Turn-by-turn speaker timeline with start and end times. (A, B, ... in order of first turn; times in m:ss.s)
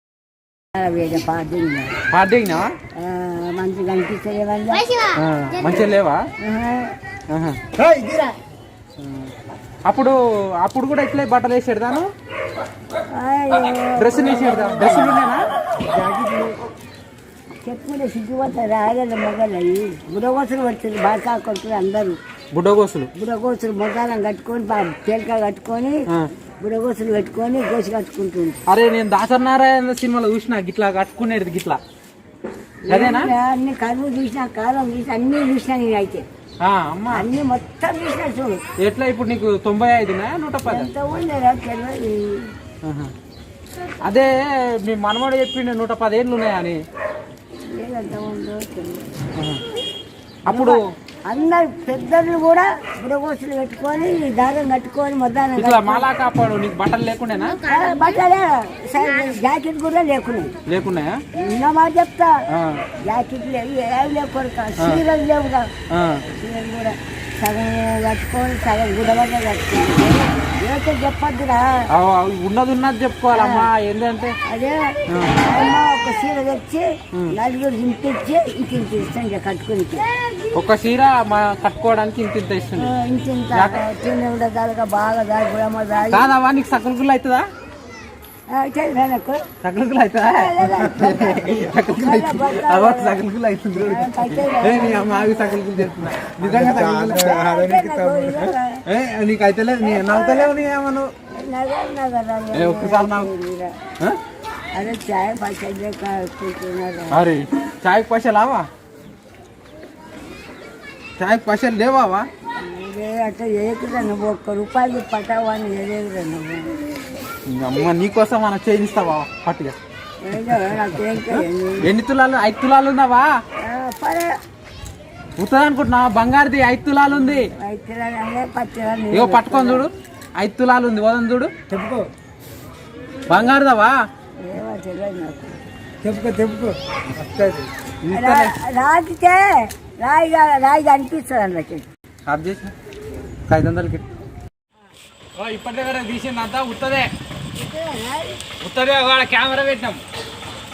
0:00.7-0:02.0 A
0:02.1-0:02.8 B
0:03.0-0:05.0 A
0:05.1-0:06.2 B
0:06.4-0:06.9 A
0:07.3-0:07.6 B
0:07.8-0:08.3 C
0:09.0-0:09.3 B
0:09.9-0:12.1 B
0:13.2-0:15.2 A
0:14.0-0:15.5 B
0:15.9-0:16.5 A
0:17.6-0:22.2 A
0:22.5-0:23.1 B
0:23.2-0:26.0 A
0:26.6-0:28.6 A
0:28.7-0:31.8 B
0:32.9-0:36.3 A
0:32.9-0:33.3 B
0:36.6-0:37.3 B
0:37.1-0:38.6 A
0:38.8-0:40.9 B
0:40.6-0:42.5 A
0:42.8-0:43.1 B
0:44.0-0:46.8 B
0:47.7-0:49.1 A
0:49.4-0:49.6 B
0:50.5-0:50.8 B
0:50.5-0:56.1 A
0:55.6-0:57.7 B
0:57.6-1:00.5 A
1:00.7-1:01.2 B
1:01.4-1:02.3 A
1:02.5-1:02.8 B
1:03.1-1:05.7 A
1:05.9-1:06.2 B
1:06.3-1:11.7 A
1:11.9-1:14.4 B
1:13.3-1:13.7 A
1:14.5-1:20.1 A
1:15.1-1:15.4 B
1:20.5-1:22.9 B
1:22.8-1:26.3 A
1:23.5-1:23.8 B
1:26.1-1:27.5 B
1:28.5-1:29.5 A
1:29.6-1:37.4 B
1:30.3-1:33.2 A
1:33.8-1:35.6 A
1:36.4-1:38.3 C
1:36.6-1:38.8 A
1:38.3-1:41.1 B
1:39.8-1:40.6 A
1:41.3-1:43.7 A
1:42.5-1:43.3 B
1:44.8-1:47.2 A
1:47.1-1:48.7 B
1:51.2-1:52.3 B
1:52.6-1:56.8 A
1:57.5-1:59.8 B
2:00.2-2:01.9 A
2:01.2-2:03.3 B
2:03.6-2:04.3 A
2:05.4-2:07.5 B
2:07.5-2:09.9 A
2:09.1-2:11.5 B
2:11.7-2:12.1 C
2:13.3-2:14.0 B
2:14.4-2:15.6 A
2:16.0-2:17.7 C
2:18.0-2:18.5 B
2:18.1-2:21.9 A
2:22.3-2:22.7 B
2:23.5-2:24.1 B
2:25.4-2:27.1 B
2:27.6-2:28.4 A
2:28.6-2:30.0 B